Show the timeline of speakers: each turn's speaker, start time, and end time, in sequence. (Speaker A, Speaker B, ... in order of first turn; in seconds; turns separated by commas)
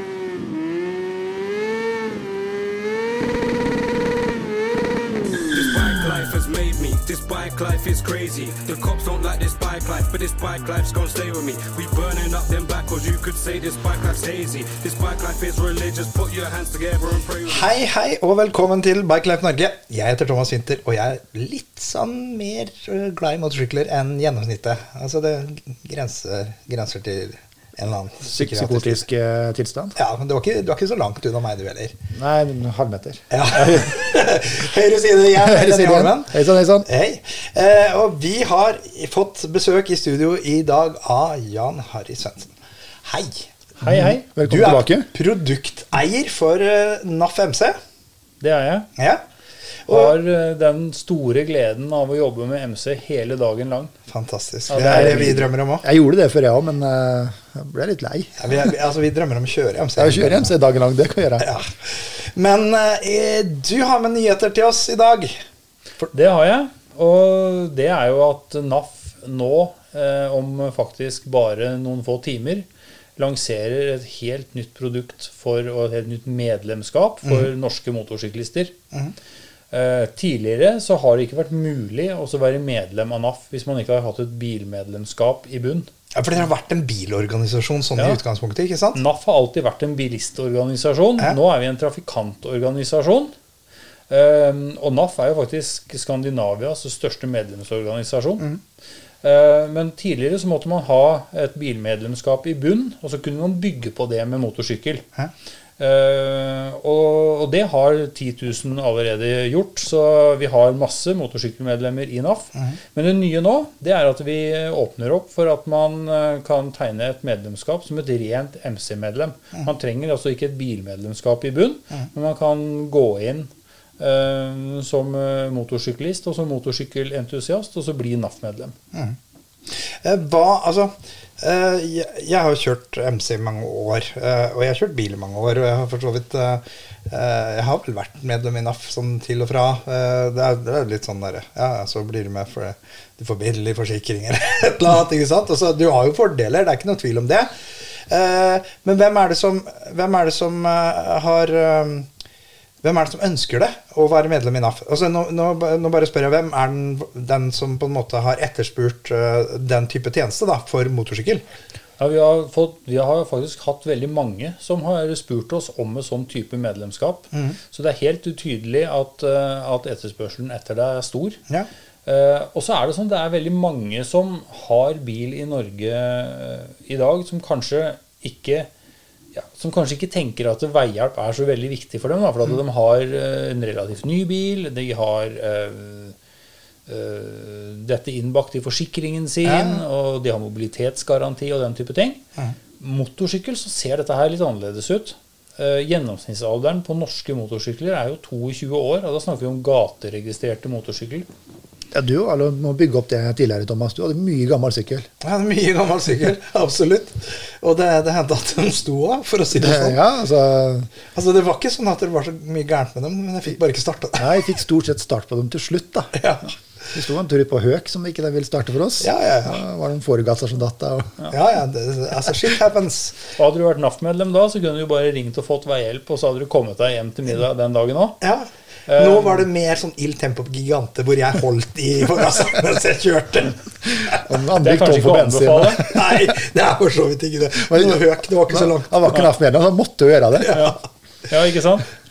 Speaker A: 5.5-17.7, Speaker B: 17.5-29.0, Speaker C: 28.3-30.0, Speaker B: 30.0-32.0, Speaker C: 32.1-33.9, Speaker B: 33.3-42.5, Speaker C: 35.4-36.9, Speaker B: 43.0-43.5, Speaker C: 43.8-45.1, Speaker D: 43.8-44.2, Speaker B: 44.4-47.8, Speaker D: 48.4-48.9, Speaker B: 49.0-49.2, Speaker B: 49.9-50.2, Speaker D: 49.9-53.9, Speaker B: 54.1-55.9, Speaker D: 54.7-55.5, Speaker C: 54.9-58.6, Speaker B: 58.4-60.5, Speaker C: 60.0-61.5, Speaker B: 61.4-65.4, Speaker D: 66.1-72.7, Speaker D: 73.2-78.8, Speaker D: 79.7-85.9, Speaker B: 86.2-89.0, Speaker D: 89.0-93.3, Speaker D: 94.1-98.5, Speaker D: 99.2-105.1, Speaker D: 105.8-128.8, Speaker B: 129.7-152.1, Speaker B: 152.8-161.4, Speaker D: 162.0-171.4, Speaker B: 167.3-167.6, Speaker D: 172.1-178.7, Speaker D: 179.3-186.2, Speaker D: 186.9-192.2, Speaker B: 189.4-189.8, Speaker D: 192.8-201.3, Speaker C: 201.9-205.1, Speaker B: 205.2-210.0, Speaker C: 209.6-210.9, Speaker B: 211.1-214.5, Speaker C: 214.2-216.1, Speaker B: 216.1-216.5, Speaker C: 216.9-221.2, Speaker B: 219.0-219.6, Speaker B: 221.3-223.2, Speaker D: 223.4-228.2, Speaker B: 228.2-234.3, Speaker D: 228.9-229.4, Speaker C: 234.1-236.3, Speaker D: 234.6-235.9, Speaker B: 235.8-239.1, Speaker C: 237.7-240.7, Speaker B: 240.4-240.8, Speaker D: 240.5-240.8, Speaker D: 241.3-241.9